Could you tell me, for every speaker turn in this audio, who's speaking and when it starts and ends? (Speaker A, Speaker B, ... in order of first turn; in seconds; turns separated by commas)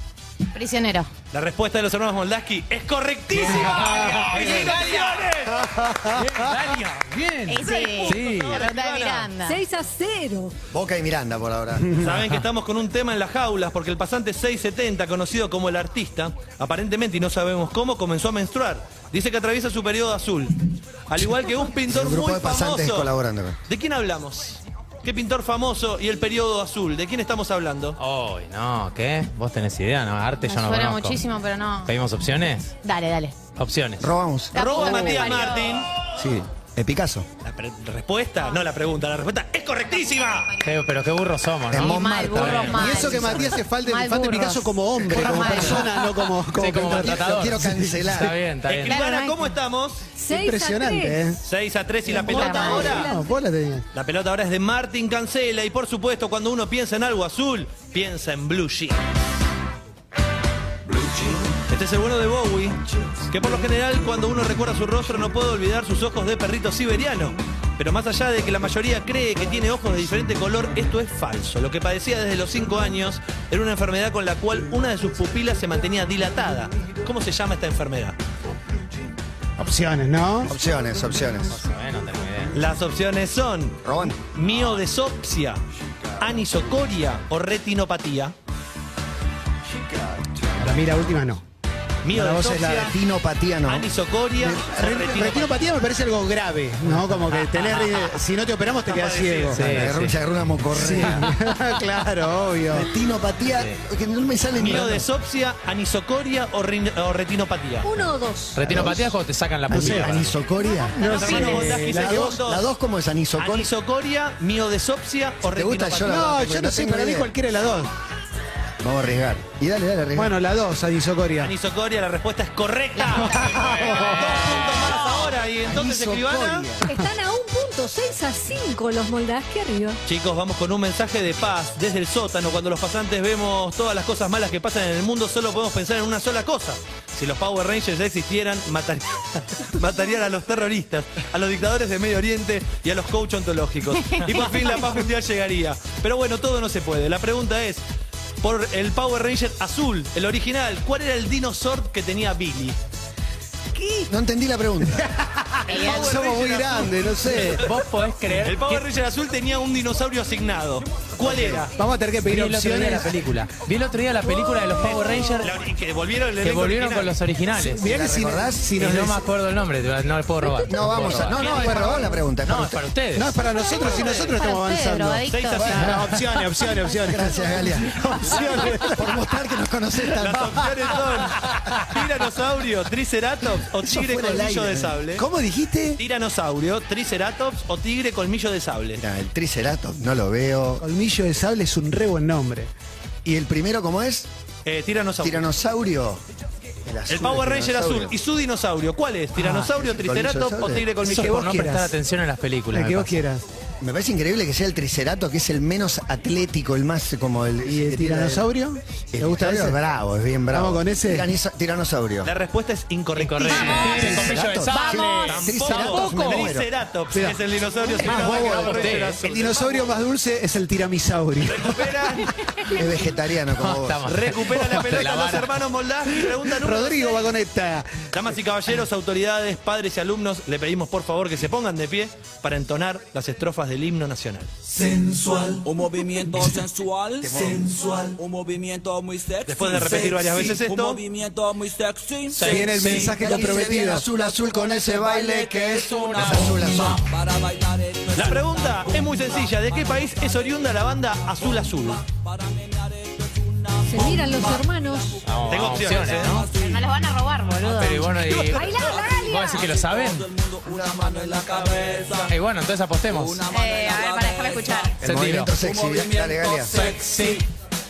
Speaker A: 0.5-1.1, Speaker B: 1.3-5.6, Speaker C: 3.3-5.5, Speaker D: 5.5-6.3, Speaker C: 6.1-8.9, Speaker A: 7.5-9.6, Speaker B: 7.7-9.2, Speaker E: 9.4-10.5, Speaker F: 10.7-12.1, Speaker B: 12.0-23.1, Speaker F: 21.9-23.6, Speaker B: 23.7-28.0, Speaker C: 28.0-31.2, Speaker A: 30.4-31.9, Speaker C: 31.9-32.7, Speaker A: 32.8-33.4, Speaker C: 33.6-34.1, Speaker F: 34.0-34.9, Speaker A: 34.5-35.9, Speaker B: 34.5-35.9, Speaker F: 36.2-37.3, Speaker B: 37.4-40.6, Speaker C: 40.6-42.9, Speaker F: 41.7-43.6, Speaker A: 41.7-45.9, Speaker D: 42.7-48.3, Speaker F: 45.0-45.8, Speaker C: 45.2-49.0, Speaker F: 47.0-48.4, Speaker B: 48.7-50.1, Speaker A: 48.8-49.5, Speaker E: 50.1-51.3, Speaker D: 50.3-51.4, Speaker B: 51.4-53.1, Speaker E: 52.0-53.4, Speaker A: 52.2-53.0, Speaker D: 52.4-53.8, Speaker B: 53.9-59.0, Speaker B: 61.7-78.2, Speaker D: 79.6-80.5, Speaker F: 80.5-81.6, Speaker C: 81.5-82.5, Speaker B: 82.5-83.8, Speaker F: 83.8-84.2, Speaker B: 84.3-85.6, Speaker B: 86.2-88.3, Speaker D: 90.6-91.4, Speaker B: 92.0-92.9, Speaker D: 92.1-92.9, Speaker F: 92.7-93.9, Speaker B: 93.7-95.5, Speaker D: 94.4-99.9, Speaker C: 97.1-97.9, Speaker B: 98.8-99.6, Speaker C: 99.5-100.1, Speaker F: 99.6-101.4, Speaker D: 100.7-102.9, Speaker F: 102.7-105.0, Speaker B: 104.6-108.0, Speaker E: 107.8-108.7, Speaker C: 108.5-110.4, Speaker F: 108.6-109.2, Speaker D: 109.7-110.1, Speaker F: 109.7-113.7, Speaker D: 111.0-112.4, Speaker B: 111.0-112.6, Speaker B: 113.4-116.3, Speaker F: 115.4-117.3, Speaker D: 116.0-117.9, Speaker F: 118.8-120.4, Speaker D: 120.2-121.5, Speaker B: 121.4-126.7, Speaker A: 123.0-123.6, Speaker D: 123.3-124.4, Speaker C: 123.6-124.1, Speaker F: 125.6-126.8, Speaker E: 126.8-130.0, Speaker B: 130.1-147.8, Speaker B: 148.4-152.8, Speaker F: 154.0-155.1, Speaker D: 155.0-157.6, Speaker B: 155.7-157.7, Speaker A: 155.7-156.1, Speaker C: 157.5-158.8, Speaker B: 158.3-161.7, Speaker F: 161.2-161.7, Speaker D: 161.8-163.2, Speaker C: 162.3-165.5, Speaker E: 164.3-165.3, Speaker B: 165.4-167.2, Speaker C: 166.4-167.8, Speaker D: 167.6-169.2, Speaker F: 167.7-168.8, Speaker C: 168.8-173.4, Speaker F: 170.7-172.8, Speaker D: 170.8-172.3, Speaker D: 173.1-179.2, Speaker A: 173.6-175.9, Speaker B: 173.9-174.3, Speaker B: 175.3-176.0, Speaker F: 177.1-180.7, Speaker D: 180.1-180.6, Speaker B: 180.2-185.2, Speaker F: 183.8-185.0, Speaker D: 185.2-186.0, Speaker B: 186.0-189.0, Speaker F: 188.9-190.8, Speaker D: 190.8-192.7, Speaker F: 193.2-194.3, Speaker B: 194.7-195.5, Speaker F: 195.2-196.2, Speaker F: 196.8-198.1, Speaker B: 197.1-201.5, Speaker D: 199.4-199.7, Speaker F: 199.5-200.9, Speaker D: 201.0-202.0, Speaker C: 201.1-203.2, Speaker D: 202.7-203.4, Speaker F: 203.8-208.5, Speaker D: 207.7-209.8, Speaker F: 209.1-212.3, Speaker D: 210.5-211.3, Speaker B: 212.2-214.0, Speaker C: 213.2-216.6, Speaker A: 213.4-215.4, Speaker F: 213.7-216.7, Speaker B: 215.3-219.9, Speaker D: 217.1-222.3, Speaker F: 218.0-218.8, Speaker C: 218.2-219.2, Speaker B: 221.4-222.3, Speaker F: 222.7-224.1, Speaker C: 223.6-225.6, Speaker B: 224.1-227.3, Speaker D: 224.6-224.8, Speaker D: 226.2-228.1, Speaker B: 228.1-234.5, Speaker G: 234.7-256.9, Speaker F: 237.2-237.7, Speaker B: 239.4-241.0, Speaker C: 242.3-243.2, Speaker D: 242.4-244.0, Speaker F: 242.9-247.0, Speaker C: 245.7-246.6, Speaker B: 248.1-252.0, Speaker E: 253.8-255.2, Speaker C: 255.2-256.5, Speaker B: 255.5-256.4, Speaker A: 256.6-258.2, Speaker C: 257.6-260.3, Speaker B: 258.1-258.9, Speaker G: 258.2-262.4, Speaker E: 258.5-259.6, Speaker C: 262.3-263.4, Speaker G: 263.0-267.5, Speaker A: 263.5-264.9, Speaker F: 265.0-266.9, Speaker C: 265.0-265.5, Speaker C: 266.8-267.4